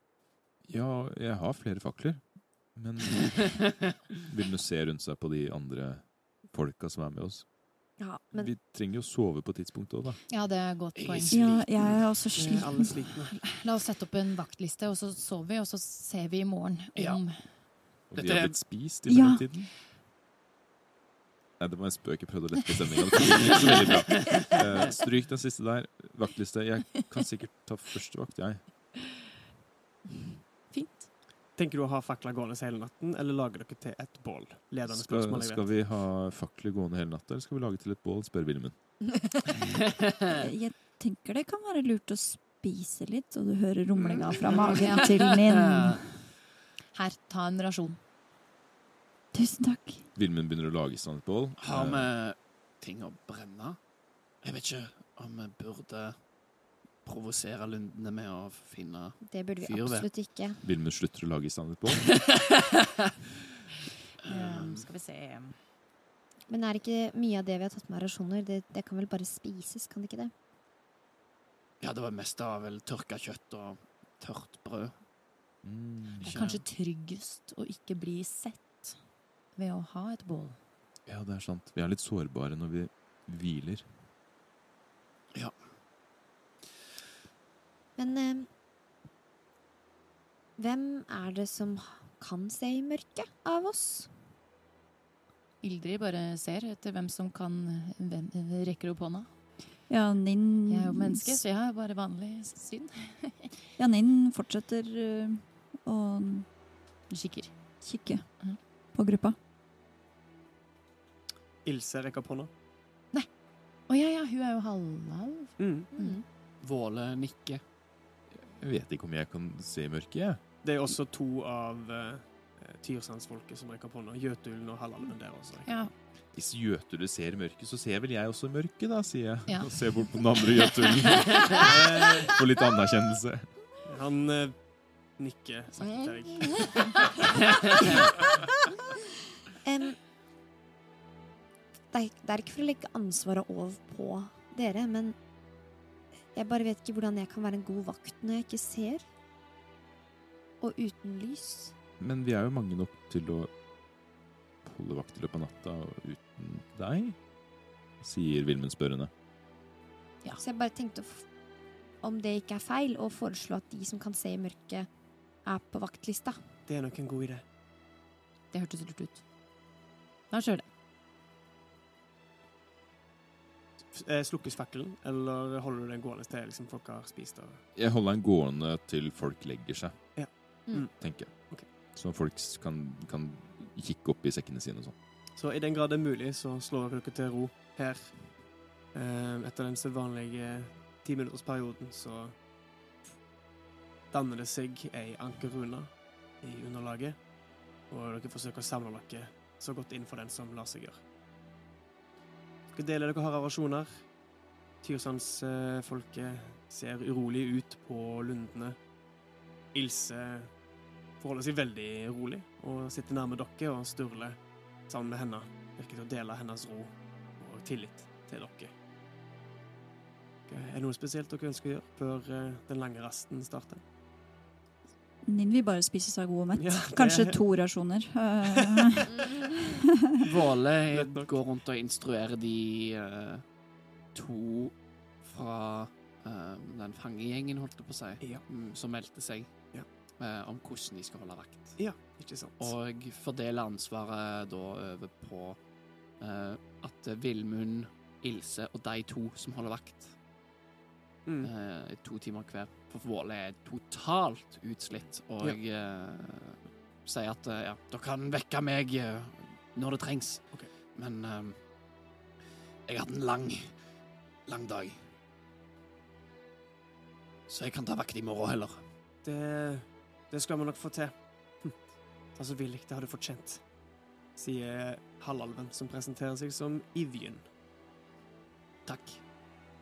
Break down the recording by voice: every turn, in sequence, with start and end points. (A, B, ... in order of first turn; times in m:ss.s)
0:00.7-0:10.2 A
0:08.0-0:08.6 B
0:10.3-0:11.6 C
0:10.9-0:12.0 D
0:11.3-0:13.1 E
0:12.4-0:13.4 F
0:12.8-0:17.7 C
0:16.9-0:18.6 D
0:18.1-0:19.7 A
0:19.1-0:19.4 E
0:21.6-0:28.7 A
0:24.1-0:24.5 D
0:30.7-0:31.1 C
0:31.5-0:35.7 F
0:34.9-0:38.8 A
0:40.3-0:46.1 E
0:44.8-0:45.1 C
0:46.9-0:48.0 C
0:49.3-0:50.0 E
0:50.2-0:52.1 A
0:51.6-0:53.8 D
0:54.4-0:56.3 D
0:57.0-1:00.2 D
0:59.2-1:00.6 B
1:00.6-1:02.1 A
1:02.0-1:02.8 D
1:04.2-1:05.6 C
1:04.3-1:04.9 D
1:06.5-1:10.3 B
1:11.8-1:15.0 D
1:15.6-1:16.5 A
1:16.2-1:16.6 D
1:16.3-1:19.0 C
1:19.5-1:20.6 C
1:21.0-1:23.9 A
1:28.0-1:28.5 B
1:30.6-1:34.1 B
1:35.6-1:39.3 C
1:39.9-1:41.4 E
1:40.7-1:43.5 C
1:43.8-1:46.5 E
1:47.1-1:47.8 C
1:47.8-1:49.4 E
1:51.6-1:52.5 F
1:53.9-1:56.2 C
1:55.6-1:55.9 F
1:55.9-1:56.2 B
1:56.6-1:57.6 D
1:58.3-2:00.6 A
2:00.6-2:05.8 F
2:05.6-2:05.9 C
2:06.3-2:13.6 A
2:09.5-2:11.7 C
2:11.6-2:12.3 F
2:13.8-2:14.6 F
2:15.2-2:16.8 F
2:16.2-2:16.8 B
2:16.5-2:16.7 C
2:19.6-2:20.0 B
2:21.9-2:25.2 B
2:26.3-2:29.1 B
2:30.6-2:31.7 B
2:32.0-2:33.5 A
2:34.6-2:37.2 A
2:38.0-2:39.1 A
2:40.4-2:41.3 B
2:42.0-2:44.9 B
2:45.4-2:46.4 B
2:46.7-2:47.4 F
2:48.5-2:49.2 C
2:50.3-2:50.6 C
2:53.8-2:57.6 F
2:57.8-3:00.1 A
3:00.2-3:00.9 F
3:01.0-3:04.9 A
3:05.4-3:08.3 F
3:08.9-3:12.3 F
3:14.1-3:17.2 F
3:17.9-3:21.0 F
3:22.7-3:24.0 F
3:24.8-3:28.8 F
3:29.7-3:30.5 F
3:31.2-3:38.7 F
3:40.5-3:43.8 F
3:45.2-3:49.4 E
3:46.5-3:47.4 F
3:49.1-3:49.4 B
3:50.2-3:53.4 D
3:50.9-3:51.4 F
3:54.1-4:01.8 D
4:01.8-4:02.8 F
4:02.6-4:05.6 D
4:06.2-4:10.1 D
4:11.2-4:11.5 F
4:11.4-4:21.6 D
4:22.8-4:23.8 D
4:24.5-4:25.1 D
4:27.5-4:28.9 D
4:29.2-4:31.8 F
4:32.3-4:33.6 F
4:34.4-4:37.4 F
4:38.8-4:39.2 D